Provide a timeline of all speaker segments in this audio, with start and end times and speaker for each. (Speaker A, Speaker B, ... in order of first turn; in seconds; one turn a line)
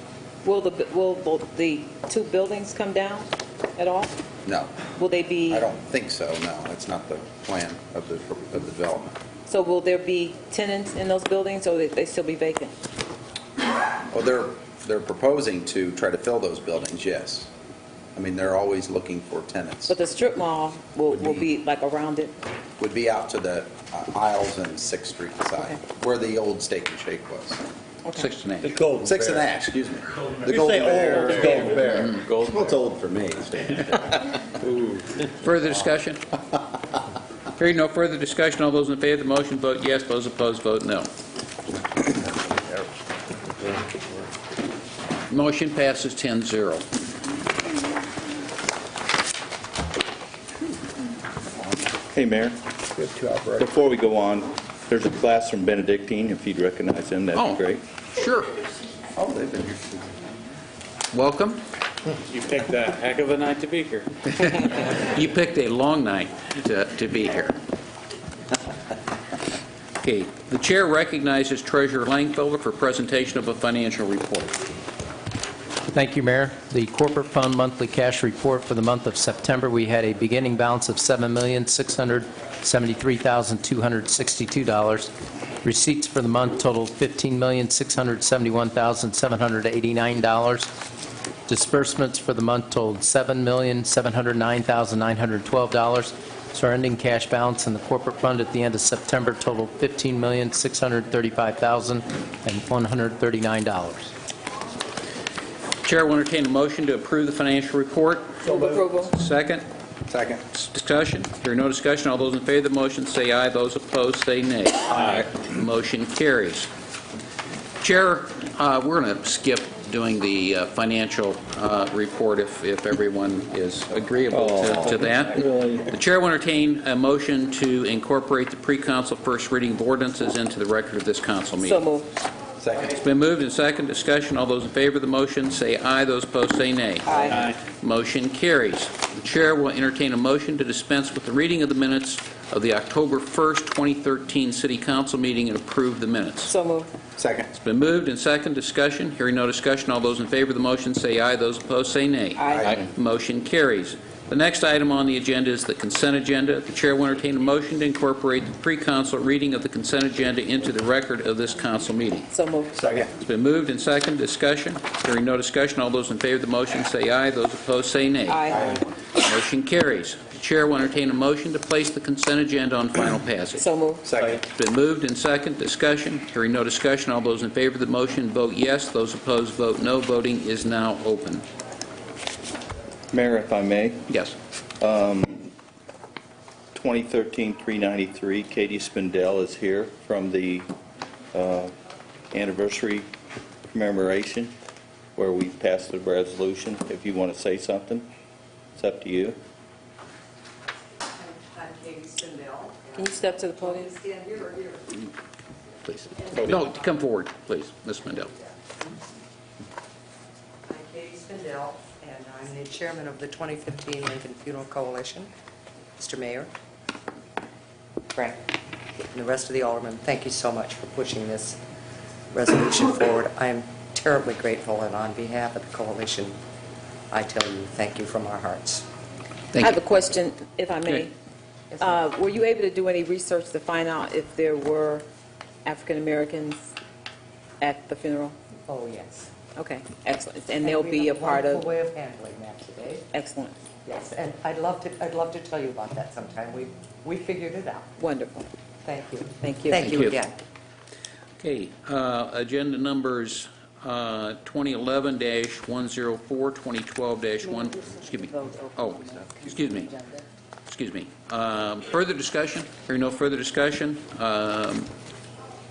Speaker A: 0.4-4.1
Speaker B: 4.4-4.9
Speaker A: 5.0-5.6
Speaker B: 5.5-9.2
Speaker A: 9.5-12.8
Speaker B: 14.1-17.5
Speaker B: 18.1-20.0
Speaker A: 19.9-22.4
Speaker B: 22.8-27.6
Speaker C: 28.1-28.8
Speaker D: 28.6-29.5
Speaker B: 28.9-34.5
Speaker D: 30.4-32.2
Speaker E: 32.0-32.6
Speaker C: 35.4-36.2
Speaker C: 37.5-41.1
Speaker C: 45.3-46.8
Speaker F: 52.1-52.6
Speaker D: 53.0-53.6
Speaker F: 53.5-57.8
Speaker C: 57.3-58.5
Speaker B: 59.2-59.9
Speaker C: 61.1-61.6
Speaker E: 62.3-64.0
Speaker C: 64.3-67.6
Speaker C: 70.0-74.6
Speaker G: 75.9-85.1
Speaker G: 85.6-90.7
Speaker G: 91.5-104.1
Speaker C: 105.8-109.6
Speaker A: 108.4-109.1
Speaker B: 110.1-110.4
Speaker C: 110.5-116.7
Speaker C: 117.8-131.8
Speaker F: 124.3-125.0
Speaker D: 125.0-125.8
Speaker A: 131.6-132.1
Speaker B: 132.6-132.9
Speaker C: 132.8-146.5
Speaker A: 137.1-137.5
Speaker A: 146.5-146.9
Speaker B: 147.2-147.5
Speaker C: 147.5-162.3
Speaker A: 152.4-152.8
Speaker B: 152.5-152.8
Speaker A: 162.3-162.9
Speaker C: 163.1-168.6
Speaker A: 168.3-168.8
Speaker C: 169.2-173.7
Speaker A: 173.6-174.1
Speaker B: 174.0-174.4
Speaker C: 174.3-181.4
Speaker F: 183.1-184.1
Speaker C: 184.1-184.3
Speaker F: 184.8-185.5
Speaker F: 186.8-190.7
Speaker F: 191.3-191.8
Speaker F: 192.3-193.1
Speaker F: 193.7-194.5
Speaker F: 195.2-198.1
Speaker F: 198.8-199.4
Speaker H: 201.1-205.0
Speaker A: 202.9-203.9
Speaker C: 205.8-208.3
Speaker H: 206.3-206.7
Speaker H: 208.3-208.5
Speaker H: 210.7-215.3
Speaker H: 216.0-216.5
Speaker H: 219.1-221.6
Speaker H: 222.3-226.4
Speaker H: 227.1-228.8
Speaker A: 229.6-231.1
Speaker H: 231.7-232.1
Speaker A: 231.8-235.1
Speaker A: 235.6-236.7
Speaker A: 237.6-238.4
Speaker H: 238.6-239.3
Speaker A: 239.6-241.7
Speaker H: 240.6-243.1
Speaker A: 243.1-243.6
Speaker H: 243.8-247.9
Speaker A: 248.0-248.5
Speaker H: 248.8-250.3
Speaker A: 249.4-250.2
Speaker C: 249.9-250.1
Speaker C: 251.4-259.9
Speaker H: 257.6-260.2
Speaker C: 260.7-264.9